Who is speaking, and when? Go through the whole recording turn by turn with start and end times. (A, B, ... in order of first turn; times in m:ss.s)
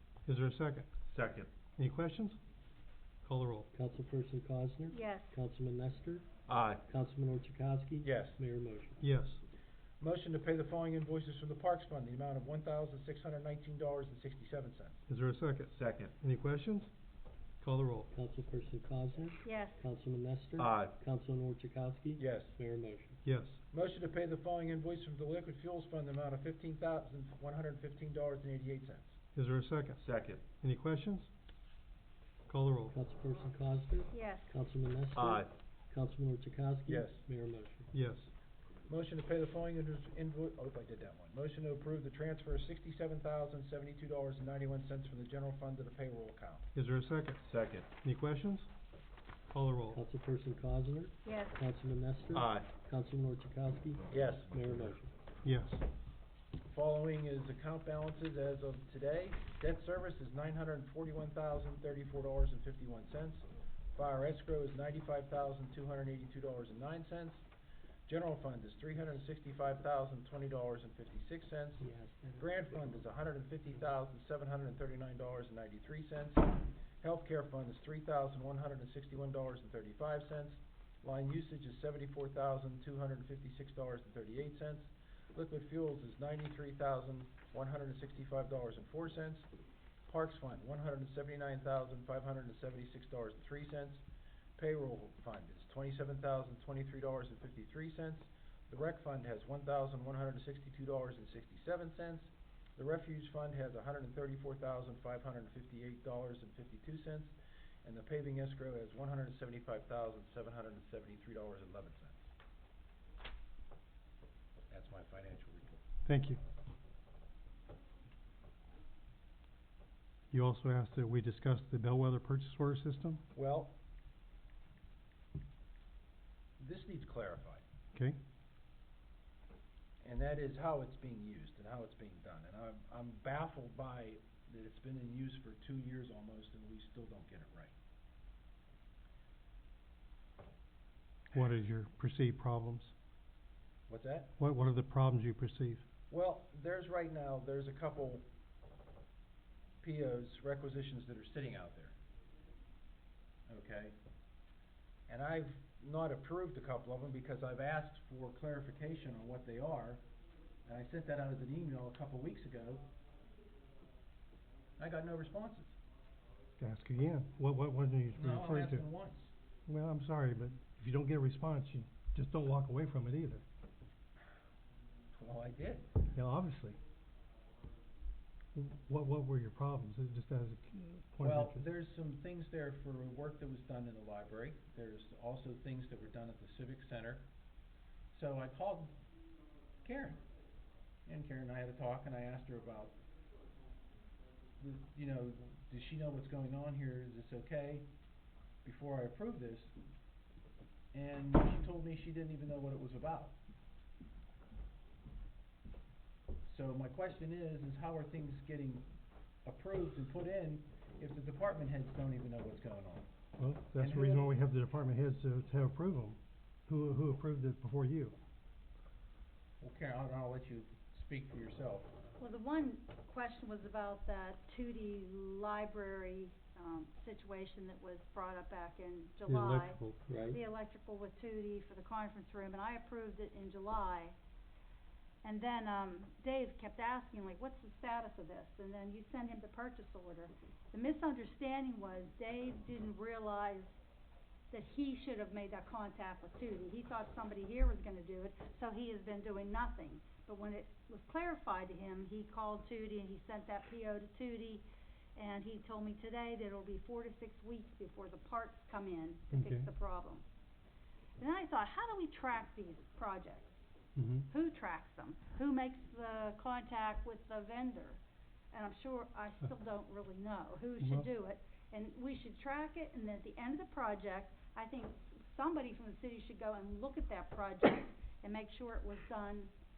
0:00.2-0:00.9 A
0:01.0-0:01.5 B
0:01.8-0:02.4 A
0:03.2-0:03.7 A
0:03.7-0:06.3 C
0:04.9-0:05.3 D
0:06.5-0:06.8 B
0:06.8-0:09.0 C
0:08.0-0:08.4 E
0:09.0-0:09.4 A
0:10.0-0:15.0 E
0:15.1-0:16.9 A
0:15.7-0:16.1 B
0:17.6-0:18.1 A
0:18.1-0:23.2 C
0:19.4-0:19.8 D
0:20.6-0:20.9 B
0:22.2-0:22.5 E
0:23.2-0:23.6 A
0:23.7-0:29.1 E
0:29.3-0:31.3 A
0:30.0-0:30.5 B
0:32.5-0:33.0 A
0:32.9-0:37.9 C
0:34.1-0:34.5 D
0:35.1-0:35.5 B
0:36.9-0:37.2 E
0:37.9-0:38.3 A
0:38.9-0:46.6 E
0:46.7-0:48.7 A
0:47.4-0:47.9 B
0:49.5-0:50.0 A
0:49.9-0:55.1 C
0:51.2-0:51.6 D
0:52.3-0:52.7 B
0:54.1-0:54.6 E
0:55.4-0:55.8 A
0:56.7-1:07.4 E
1:08.1-1:11.9 E
1:11.8-1:12.6 C
1:12.4-1:29.5 E
1:30.0-1:34.0 E
1:34.6-1:47.3 E
1:47.8-1:52.2 E
1:54.7-1:55.8 E
1:56.0-1:56.4 A
2:00.3-2:03.2 A
2:03.3-2:03.8 E
2:06.6-2:07.6 E
2:10.0-2:17.7 E
2:21.3-2:22.9 A
2:23.9-2:24.3 E
2:24.4-2:25.8 A
2:26.1-2:28.2 E
2:29.8-2:32.0 E
2:33.5-2:34.0 E
2:35.1-2:40.0 E
2:40.6-2:42.9 E
2:44.8-2:45.7 E
2:46.6-2:48.8 A
2:48.2-2:49.3 E
2:49.6-2:53.4 A
2:55.1-2:56.0 E
2:56.1-2:56.8 A
2:58.5-3:01.6 A
3:01.2-3:07.3 E
3:08.1-3:09.0 E
3:09.8-3:10.2 E
3:11.0-3:12.9 E
3:14.6-3:17.9 E
3:18.6-3:19.7 E
3:20.9-3:23.4 E
3:26.4-3:28.9 E
3:29.4-3:33.0 E
3:33.4-3:38.2 A
3:33.8-3:34.3 E
3:39.6-3:41.9 E
3:42.2-3:54.2 D
3:49.2-3:50.0 A
3:50.1-3:50.4 C
3:55.2-4:03.7 D
4:04.5-4:14.6 D
4:15.2-4:20.2 D
4:19.3-4:19.7 A
4:21.2-4:23.6 D
4:24.0-4:24.3 A
4:24.3-4:28.0 D
4:28.5-4:39.5 D